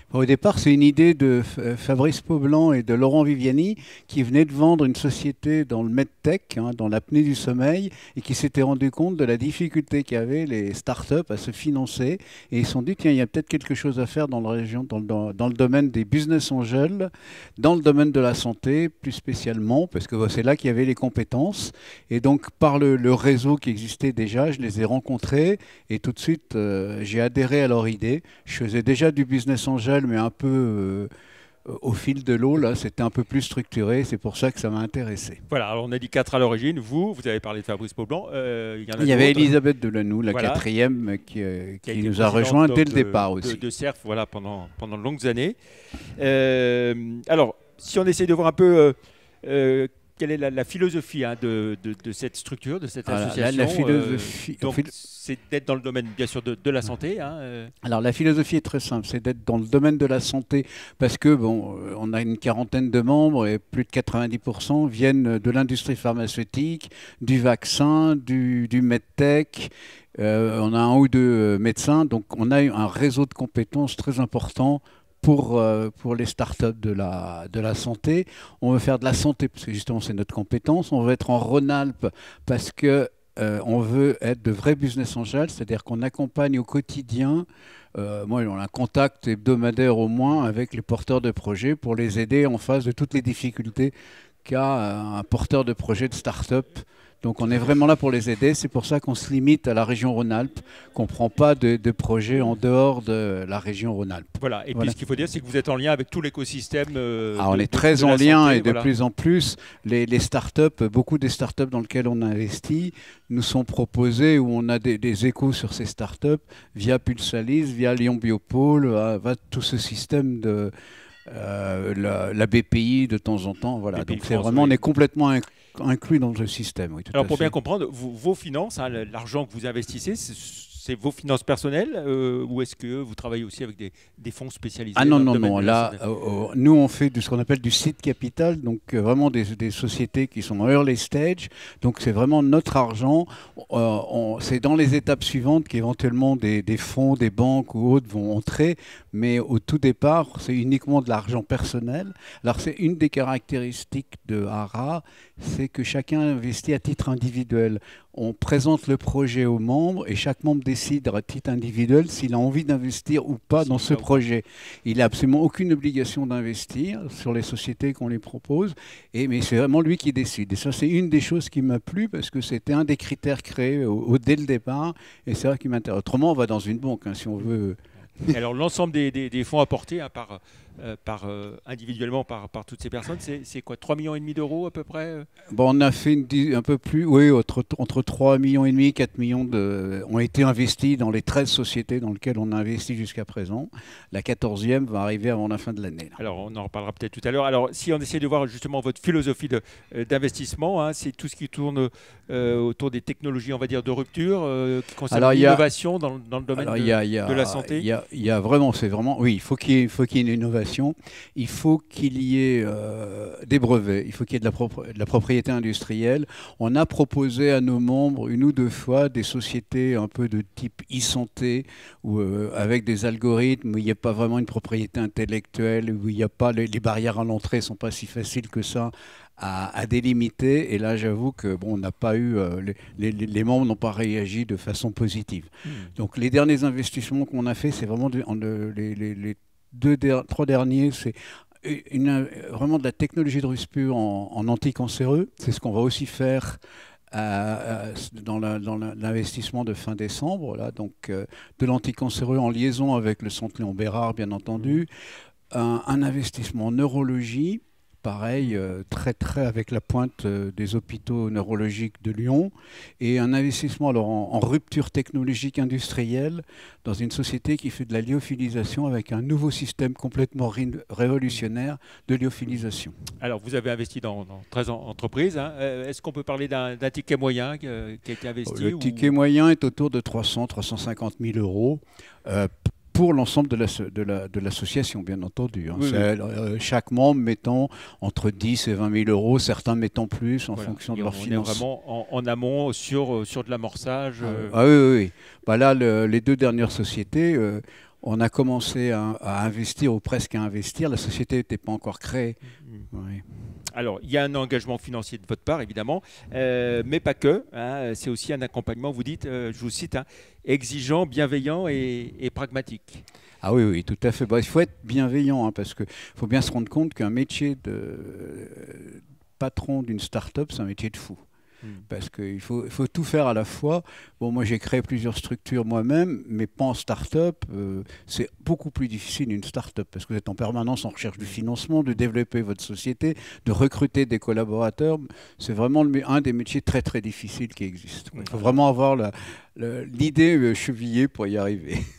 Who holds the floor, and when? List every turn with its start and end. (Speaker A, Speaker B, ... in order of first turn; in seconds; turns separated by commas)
Speaker A: 0.1-31.1, Speaker A: 31.6-35.4, Speaker B: 35.5-39.5, Speaker A: 39.0-43.6, Speaker B: 40.3-40.6, Speaker B: 41.9-45.5, Speaker B: 46.1-57.7, Speaker A: 53.1-54.9, Speaker A: 57.8-93.9, Speaker A: 94.4-105.0, Speaker B: 104.4-108.9, Speaker A: 107.3-120.7, Speaker A: 121.2-127.5, Speaker B: 123.9-124.8, Speaker B: 127.1-136.0, Speaker A: 134.9-178.4, Speaker B: 163.6-164.2, Speaker B: 178.3-185.3, Speaker A: 185.5-196.2, Speaker B: 196.2-207.9, Speaker A: 205.1-205.6, Speaker A: 206.5-246.6, Speaker B: 235.6-235.9, Speaker A: 247.1-254.9, Speaker B: 254.6-254.8, Speaker A: 255.5-272.9, Speaker B: 273.2-279.1, Speaker A: 278.4-291.6, Speaker B: 285.7-286.1, Speaker B: 290.6-294.6, Speaker A: 294.2-302.4, Speaker B: 302.6-302.9, Speaker A: 302.9-303.2, Speaker B: 303.7-313.0, Speaker A: 313.4-321.2, Speaker A: 321.9-341.8, Speaker B: 338.1-338.6